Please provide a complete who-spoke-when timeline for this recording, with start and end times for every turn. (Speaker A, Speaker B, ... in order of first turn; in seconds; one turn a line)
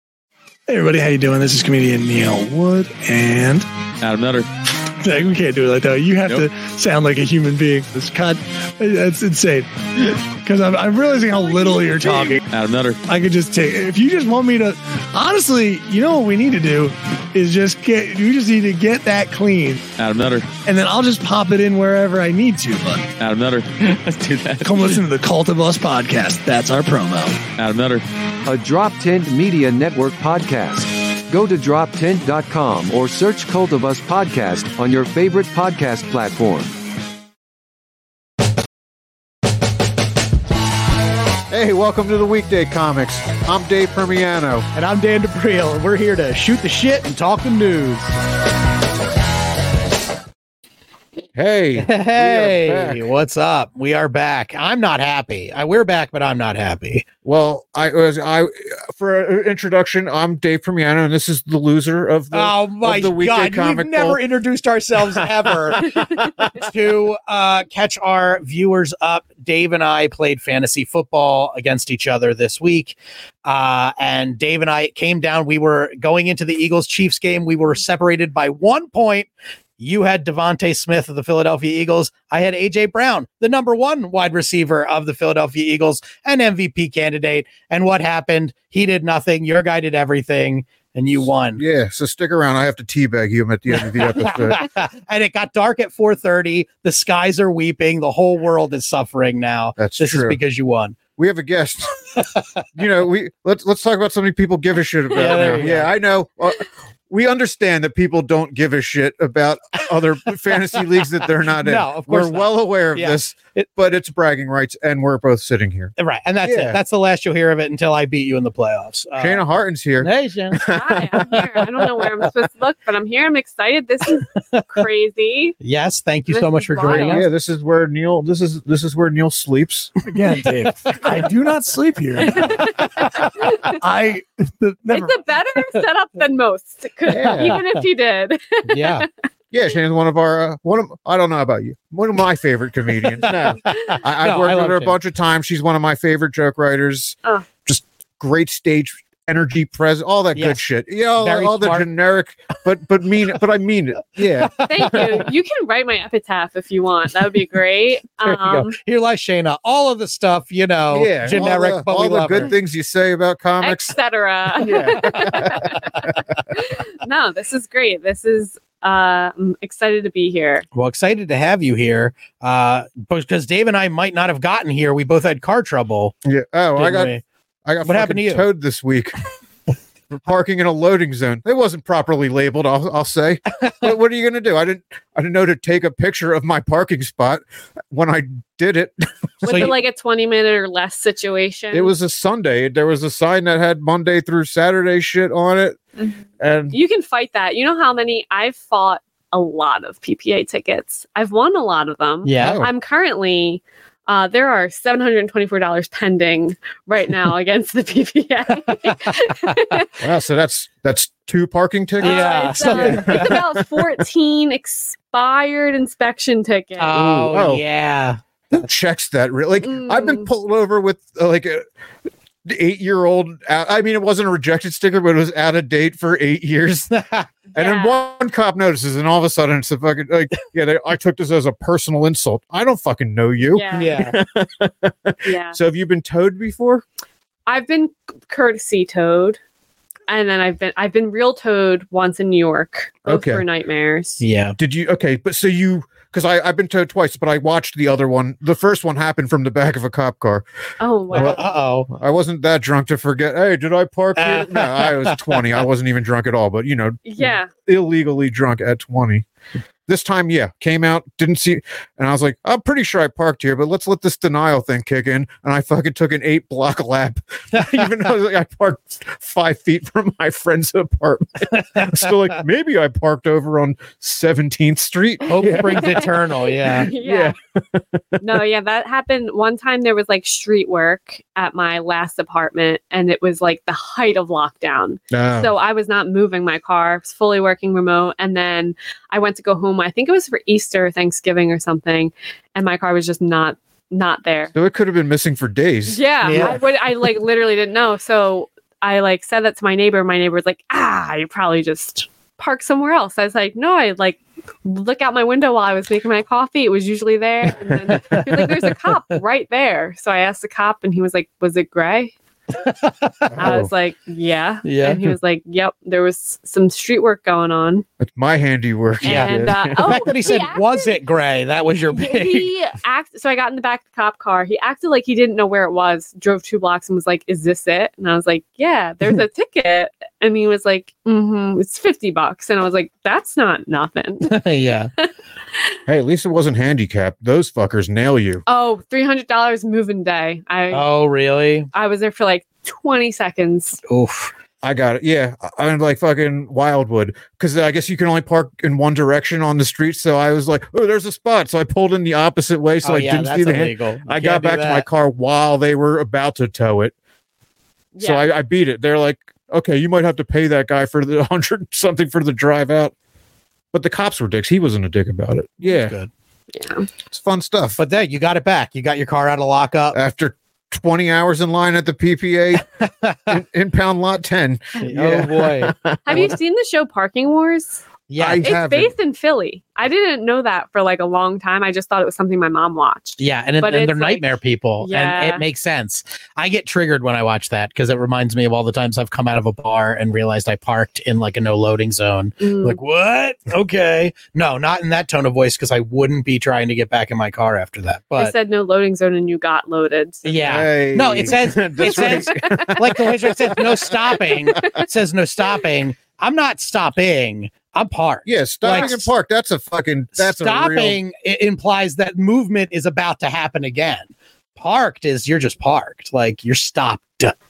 Speaker A: 0.7-3.6
Speaker B: 4.0-4.5
Speaker A: 5.0-12.4
Speaker B: 11.7-13.0
Speaker A: 13.1-19.8
Speaker B: 20.0-20.5
Speaker A: 20.6-23.1
Speaker B: 23.2-25.0
Speaker A: 24.6-27.4
Speaker B: 27.6-28.0
Speaker C: 28.4-36.8
Speaker D: 41.5-44.7
Speaker E: 44.7-48.1
Speaker D: 51.3-53.0
Speaker E: 51.8-57.0
Speaker D: 57.2-64.2
Speaker E: 62.3-79.3
Speaker D: 65.1-66.5
Speaker E: 79.8-91.6
Speaker D: 91.5-94.7
Speaker E: 93.8-101.0
Speaker D: 99.8-100.4
Speaker D: 101.2-102.0
Speaker E: 102.2-102.4
Speaker D: 102.7-116.8
Speaker E: 105.1-105.9
Speaker E: 111.6-113.7
Speaker E: 116.0-119.4
Speaker D: 119.2-121.0
Speaker E: 120.0-121.8
Speaker F: 120.7-125.5
Speaker E: 124.1-124.8
Speaker E: 125.6-127.2
Speaker F: 126.3-127.2
Speaker D: 126.9-129.9
Speaker A: 130.1-135.2
Speaker E: 130.7-131.0
Speaker F: 132.3-133.8
Speaker F: 134.9-139.0
Speaker D: 137.1-137.6
Speaker E: 137.2-137.8
Speaker E: 138.7-139.1
Speaker D: 139.5-155.0
Speaker E: 143.2-145.0
Speaker E: 150.3-150.6
Speaker E: 151.2-151.9
Speaker E: 154.4-155.2
Speaker F: 154.6-158.7
Speaker E: 158.2-162.5
Speaker D: 160.9-164.0
Speaker F: 163.6-165.9
Speaker D: 164.6-166.2
Speaker F: 166.5-170.6
Speaker E: 170.7-176.1
Speaker D: 176.2-177.1
Speaker E: 176.8-177.2
Speaker D: 177.7-179.2
Speaker E: 177.8-178.4
Speaker D: 180.1-189.7
Speaker E: 189.4-189.7
Speaker F: 189.4-191.9
Speaker D: 191.7-195.8
Speaker D: 196.4-196.8
Speaker F: 196.7-209.9
Speaker E: 202.2-202.6
Speaker D: 202.4-202.7
Speaker E: 208.7-209.6
Speaker D: 210.0-213.9
Speaker E: 212.0-213.4
Speaker F: 212.0-217.0
Speaker E: 216.8-218.2
Speaker D: 216.9-217.6
Speaker D: 218.5-221.7
Speaker F: 219.6-220.3
Speaker D: 222.4-226.9
Speaker E: 226.9-227.3
Speaker F: 227.5-228.0
Speaker D: 227.5-236.8
Speaker F: 233.5-234.0
Speaker E: 233.7-234.2
Speaker F: 235.2-235.6
Speaker F: 237.5-239.4
Speaker F: 240.1-244.2
Speaker D: 243.1-243.4
Speaker E: 244.2-244.5
Speaker D: 244.6-250.4
Speaker F: 250.8-251.4
Speaker D: 251.1-259.2
Speaker E: 251.1-251.9
Speaker E: 254.2-255.5
Speaker F: 257.0-257.5
Speaker D: 259.9-276.1
Speaker E: 267.5-267.8
Speaker E: 271.6-272.1
Speaker E: 275.2-276.9
Speaker F: 275.8-276.0
Speaker F: 276.7-277.3
Speaker D: 276.8-278.2
Speaker F: 278.2-294.5
Speaker D: 285.1-285.5
Speaker D: 294.5-296.6
Speaker F: 295.9-312.1
Speaker E: 296.2-296.6
Speaker D: 307.5-308.2
Speaker E: 308.1-308.7
Speaker E: 312.6-313.3
Speaker D: 313.3-313.7
Speaker F: 313.4-317.8
Speaker E: 314.6-315.1
Speaker D: 318.0-320.1
Speaker F: 319.0-321.0
Speaker E: 319.0-322.5
Speaker F: 321.9-334.4
Speaker E: 334.3-334.9
Speaker D: 335.9-338.4
Speaker F: 338.5-340.9
Speaker E: 340.7-341.7
Speaker F: 341.7-343.8
Speaker E: 343.9-344.3
Speaker D: 344.6-356.9
Speaker E: 352.8-354.9
Speaker F: 357.9-358.3
Speaker D: 358.0-362.9
Speaker D: 363.7-365.9
Speaker E: 365.6-366.1
Speaker F: 366.5-366.9
Speaker D: 367.1-367.8
Speaker E: 367.8-370.0
Speaker D: 369.9-372.6
Speaker E: 372.8-373.4
Speaker D: 373.3-376.3
Speaker E: 374.8-376.3
Speaker F: 376.0-377.8
Speaker E: 378.1-378.4
Speaker D: 378.2-378.9
Speaker F: 378.4-384.3
Speaker E: 383.2-398.3
Speaker F: 384.8-385.4
Speaker F: 392.4-392.8
Speaker F: 398.2-400.4
Speaker E: 400.2-409.1
Speaker D: 400.4-403.9
Speaker F: 401.8-403.3
Speaker F: 403.8-404.8
Speaker D: 404.6-404.8
Speaker D: 408.2-411.0
Speaker E: 410.2-417.3